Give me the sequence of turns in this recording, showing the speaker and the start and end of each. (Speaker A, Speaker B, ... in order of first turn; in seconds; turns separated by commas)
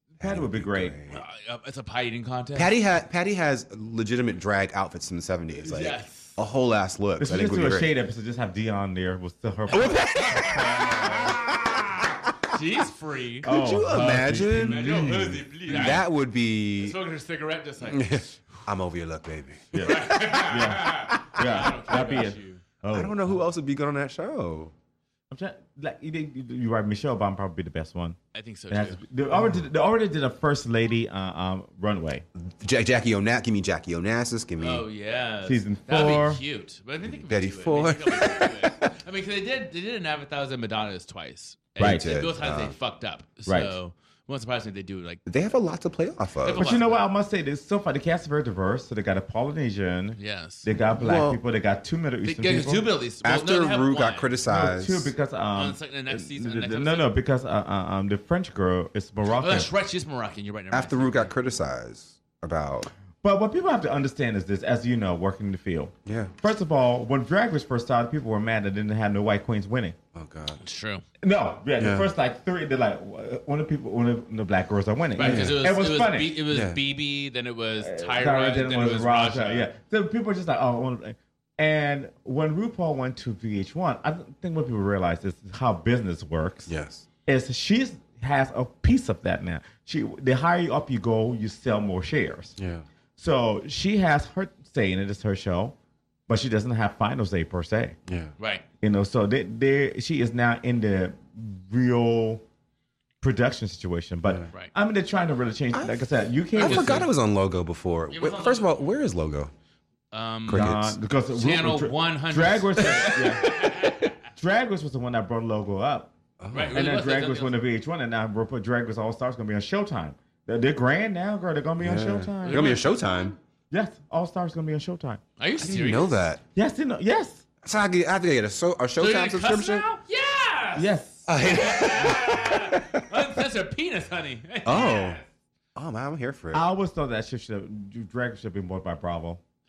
Speaker A: 0.2-1.0, Speaker B: 0.2-1.2, Speaker C: 1.1-2.7, Speaker B: 2.6-7.9, Speaker C: 5.6-6.4, Speaker A: 7.2-11.4, Speaker B: 9.7-12.1, Speaker C: 9.7-13.5, Speaker A: 13.4-14.9, Speaker B: 13.4-17.0, Speaker C: 14.5-16.1, Speaker C: 16.8-18.6, Speaker B: 17.8-19.8, Speaker C: 19.7-22.7, Speaker A: 19.7-23.1, Speaker B: 21.1-21.6, Speaker B: 22.9-24.7, Speaker A: 25.3-28.2, Speaker C: 28.3-29.0, Speaker A: 28.7-32.2, Speaker B: 32.4-34.8, Speaker C: 34.6-45.2, Speaker A: 35.5-36.4, Speaker B: 37.1-38.8, Speaker A: 41.8-42.1, Speaker B: 41.8-42.8, Speaker A: 43.5-43.8, Speaker B: 45.3-46.7, Speaker C: 46.4-47.0, Speaker A: 46.5-53.0, Speaker C: 50.2-50.7, Speaker B: 51.0-51.4, Speaker C: 52.2-54.3, Speaker B: 53.2-55.1, Speaker A: 54.5-59.7, Speaker C: 55.5-57.1, Speaker C: 59.3-61.3, Speaker B: 60.7-62.9, Speaker A: 63.2-70.0, Speaker B: 66.0-66.3, Speaker B: 70.2-70.6, Speaker C: 70.6-71.0, Speaker A: 71.2-76.3, Speaker B: 71.8-72.1, Speaker C: 75.2-79.7, Speaker B: 75.2-75.6, Speaker B: 76.5-76.8, Speaker A: 77.8-86.7, Speaker B: 86.7-87.1, Speaker A: 87.3-92.5, Speaker B: 92.6-92.8, Speaker A: 93.2-95.8, Speaker A: 96.3-98.0, Speaker B: 98.1-98.3, Speaker C: 98.4-98.7, Speaker A: 98.8-102.4, Speaker A: 103.2-107.1, Speaker B: 105.7-106.0, Speaker B: 106.6-109.5, Speaker C: 106.6-107.1, Speaker C: 108.1-108.7, Speaker C: 110.1-110.8, Speaker B: 110.5-111.0, Speaker A: 110.5-113.8, Speaker C: 111.3-114.2, Speaker A: 114.4-116.1, Speaker B: 116.4-116.8, Speaker C: 116.5-117.5, Speaker A: 116.7-122.9, Speaker B: 121.8-123.4, Speaker C: 122.5-123.4, Speaker A: 123.7-125.2, Speaker C: 125.4-126.2, Speaker B: 125.6-126.4, Speaker A: 126.6-127.5, Speaker B: 127.6-129.9, Speaker C: 129.0-135.3, Speaker A: 130.8-131.2, Speaker B: 131.3-133.0, Speaker B: 134.7-135.2, Speaker B: 135.8-136.6, Speaker A: 136.5-139.4